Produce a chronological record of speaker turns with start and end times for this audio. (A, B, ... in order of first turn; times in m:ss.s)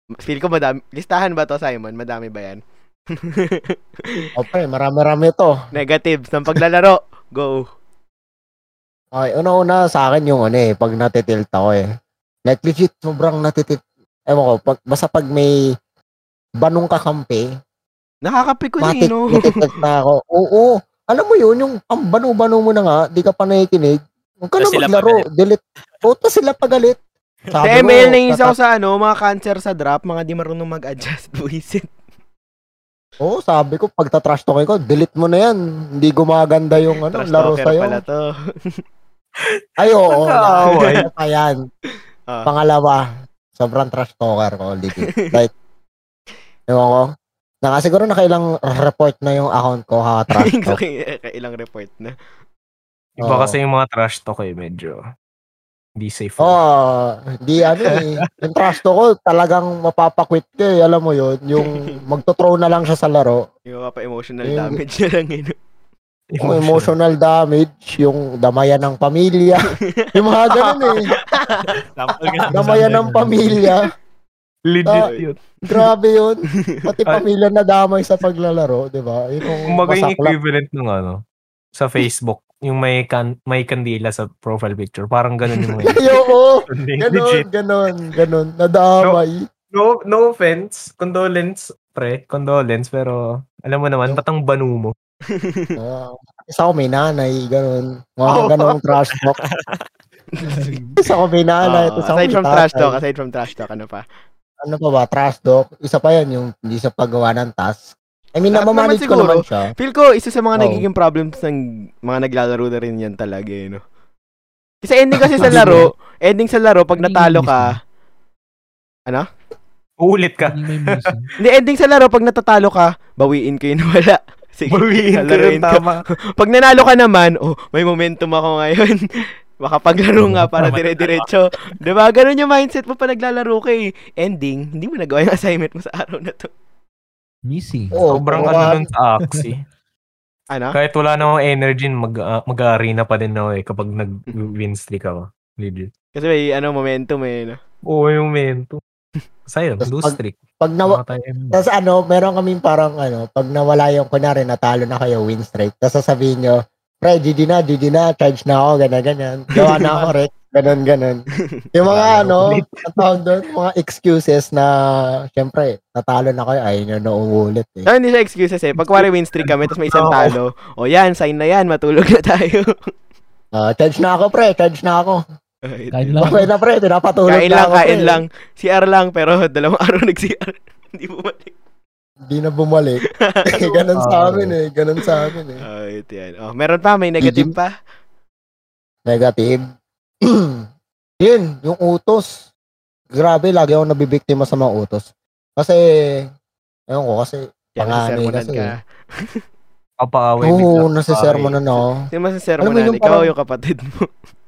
0:00.2-0:02.6 A
0:03.1-0:04.2 A
0:04.4-0:05.5 B
0:05.7-0:07.7 A
0:09.1-0:11.8 B
0:12.4-0:15.6 B
0:16.6-0:17.5 B
0:18.2-0:19.6 A
0:18.8-0:27.0 B
0:24.6-0:25.2 C
0:27.5-0:27.8 C
0:27.5-0:28.6 B
0:27.6-0:31.9 A
0:33.2-0:38.0 B
0:37.1-0:38.3 A
0:39.4-0:41.1 D
0:39.8-0:41.6 B
0:42.4-0:45.5 B
0:45.0-0:45.4 A
0:46.7-0:47.0 B
0:47.6-0:50.8 B
0:50.3-0:52.1 A
0:53.2-0:55.0 D
0:53.2-0:53.6 B
0:56.0-0:56.5 D
0:56.4-1:03.4 B
0:57.8-0:58.2 D
1:01.6-1:01.9 A
1:03.6-1:05.5 A
1:04.4-1:04.8 B
1:06.3-1:06.9 D
1:06.4-1:11.1 B
1:10.0-1:11.6 A
1:11.8-1:13.0 C
1:12.5-1:13.2 D
1:12.5-1:13.9 B
1:14.7-1:15.4 D
1:15.0-1:15.8 A
1:15.7-1:20.3 B
1:19.7-1:21.2 D
1:21.7-1:26.0 D
1:25.9-1:29.4 B
1:26.7-1:27.4 D
1:29.7-1:34.9 D
1:35.3-1:35.8 A
1:35.8-1:39.4 B
1:39.2-1:39.8 C
1:40.4-1:40.7 A
1:40.5-1:40.9 E
1:41.0-1:43.0 B
1:41.6-1:44.0 A
1:44.6-1:49.7 B
1:48.5-1:53.8 A
1:50.5-1:50.8 B
1:54.8-1:57.8 A
1:55.4-1:55.8 D
1:55.5-1:55.9 E
1:57.0-1:57.8 E
2:00.0-2:01.1 D
2:00.4-2:01.3 E
2:01.4-2:16.5 A
2:04.7-2:06.0 D
2:10.2-2:10.7 E
2:10.6-2:11.3 C
2:17.5-2:18.7 E
2:17.9-2:18.8 B
2:18.1-2:19.6 D
2:19.2-2:19.5 E
2:20.5-2:20.8 A
2:20.7-2:25.9 D
2:26.1-2:27.6 A
2:27.9-2:28.8 D
2:29.5-2:31.6 D
2:29.8-2:31.0 B
2:31.5-2:44.7 B
2:39.6-2:40.0 A
2:41.9-2:43.1 D
2:45.3-2:47.9 B
2:47.8-2:52.9 A
2:48.9-2:50.4 D
2:53.5-2:55.2 B
2:55.6-2:56.4 A
2:55.9-2:56.5 E
2:56.2-2:58.2 B
2:57.3-3:01.5 A
3:02.3-3:05.6 B
3:03.2-3:03.8 A
3:04.0-3:04.5 D
3:05.6-3:07.7 A
3:07.2-3:07.5 B
3:09.0-3:09.6 B
3:10.2-3:10.6 B
3:11.2-3:12.4 B
3:13.1-3:16.2 B
3:16.9-3:18.7 B
3:17.8-3:19.4 A
3:20.0-3:20.9 D
3:20.4-3:22.0 B
3:21.1-3:24.1 A
3:22.6-3:23.3 B